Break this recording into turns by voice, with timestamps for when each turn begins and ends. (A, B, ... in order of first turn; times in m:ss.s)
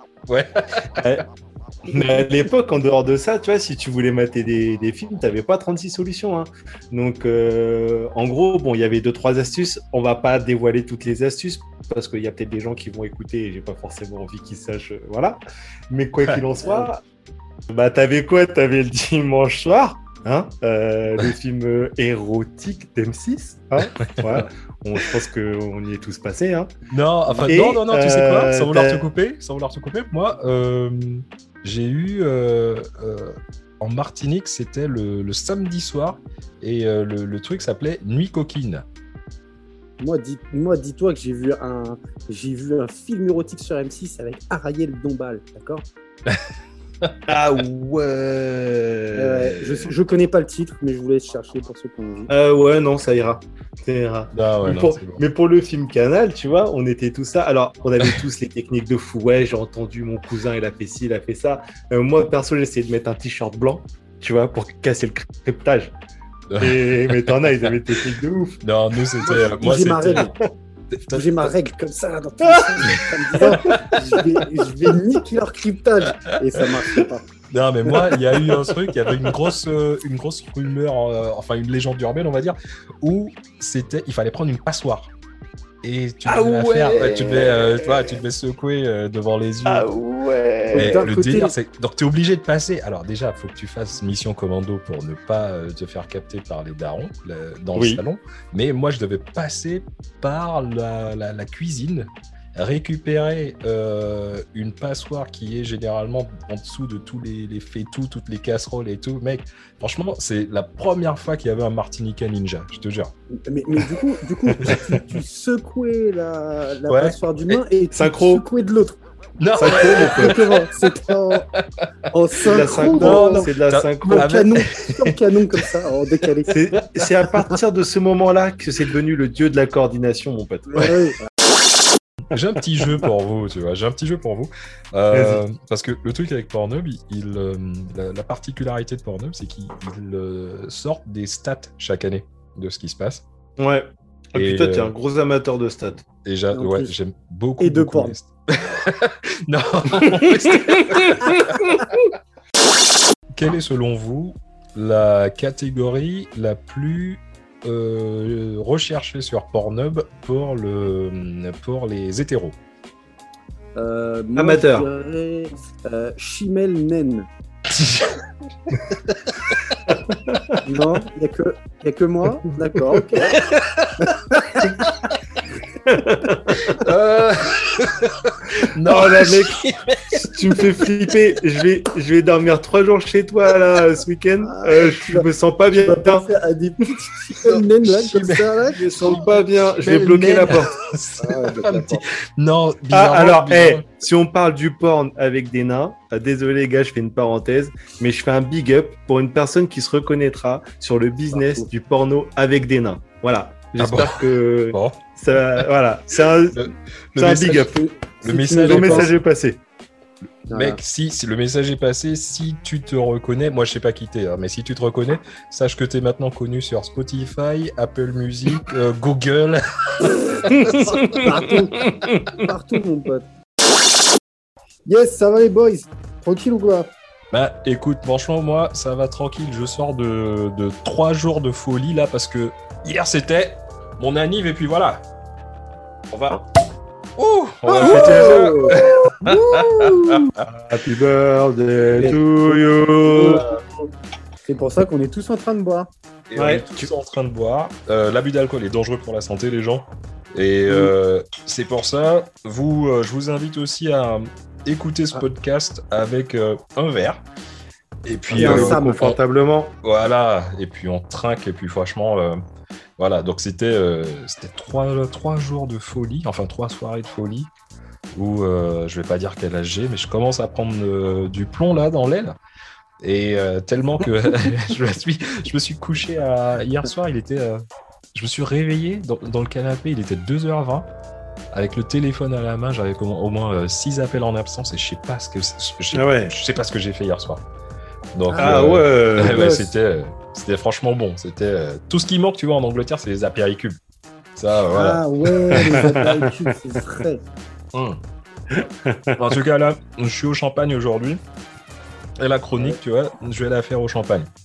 0:00.3-0:00.7 A
0:01.0-0:01.2 B
0:01.9-0:15.4 B
0:15.9-0:17.0 B
0:17.7-0:26.7 B
0:24.2-0:24.5 A
0:26.9-0:38.8 A
0:27.4-0:29.1 B
0:40.0-0:45.8 C
0:47.3-0:49.9 B
0:49.2-0:52.3 C
0:52.3-1:05.9 B
0:54.3-0:55.2 A
1:06.5-1:07.7 A
1:06.6-1:08.6 B
1:08.6-1:10.4 A
1:09.2-1:10.3 C
1:10.9-1:11.5 A
1:11.1-1:17.2 C
1:12.4-1:14.3 B
1:17.5-1:25.1 A
1:17.9-1:19.4 B
1:25.8-1:29.9 A
1:26.2-1:28.2 B
1:29.6-1:31.0 B
1:30.7-1:53.1 A
1:30.7-1:31.6 C
1:37.8-1:38.0 B
1:53.5-1:59.0 C
1:54.6-1:54.9 A
1:56.9-1:57.6 A
1:57.9-1:58.4 B
1:59.4-2:01.7 A
1:59.6-2:00.4 B
1:59.7-2:01.5 C
2:02.1-2:03.5 C
2:02.4-2:04.3 B
2:02.9-2:05.2 A
2:04.0-2:06.8 C
2:06.5-2:10.9 B
2:10.7-2:11.2 C
2:12.3-2:23.2 A
2:15.1-2:15.4 B
2:23.6-2:26.1 B
2:24.3-2:25.0 A
2:26.2-2:31.9 A
2:26.5-2:26.9 C
2:27.6-2:28.2 C
2:30.0-2:31.8 B
2:33.3-2:42.6 A
2:43.8-2:47.3 C
2:44.4-2:44.9 B
2:47.8-2:48.1 A
2:48.9-2:49.3 A
2:50.1-2:50.5 B
2:50.7-2:53.2 C
2:53.2-2:54.1 A
2:55.9-2:56.8 B
2:56.6-3:00.9 A
2:58.9-2:59.6 B
3:00.2-3:06.3 B
3:04.5-3:08.8 C
3:07.3-3:13.9 A
3:08.7-3:10.8 B
3:11.2-3:12.1 C
3:12.9-3:27.9 B
3:21.4-3:21.7 C
3:23.8-3:25.7 A
3:26.5-3:29.2 A
3:27.8-3:29.1 C
3:28.7-3:29.6 B
3:30.5-3:41.0 A
3:30.5-3:30.8 C
3:40.5-3:42.4 B
3:40.7-3:41.8 C
3:42.4-3:43.2 C
3:44.9-3:46.9 C
3:47.3-3:55.0 A
3:56.1-3:56.4 A
3:57.2-4:00.5 A
3:57.8-3:58.8 C
3:57.8-3:59.1 B
4:00.5-4:03.4 B
4:02.0-4:03.5 C
4:04.5-4:05.9 C
4:06.3-4:17.2 A
4:06.4-4:06.9 B
4:18.0-4:19.2 A
4:18.3-4:19.1 C
4:18.3-4:19.8 B
4:19.8-4:22.4 A
4:23.0-4:27.5 A
4:28.1-4:32.4 A
4:33.0-4:40.9 A
4:41.5-4:47.4 A
4:45.9-4:46.3 B
4:48.1-4:53.8 A
4:48.3-4:48.6 C
4:48.4-4:49.6 B
4:49.2-4:49.7 C
4:54.4-4:55.9 A
4:54.7-4:57.2 C
4:55.5-4:56.3 B
4:57.7-4:58.0 A
4:58.5-4:59.3 B
4:59.2-5:01.2 A
5:02.2-5:04.3 A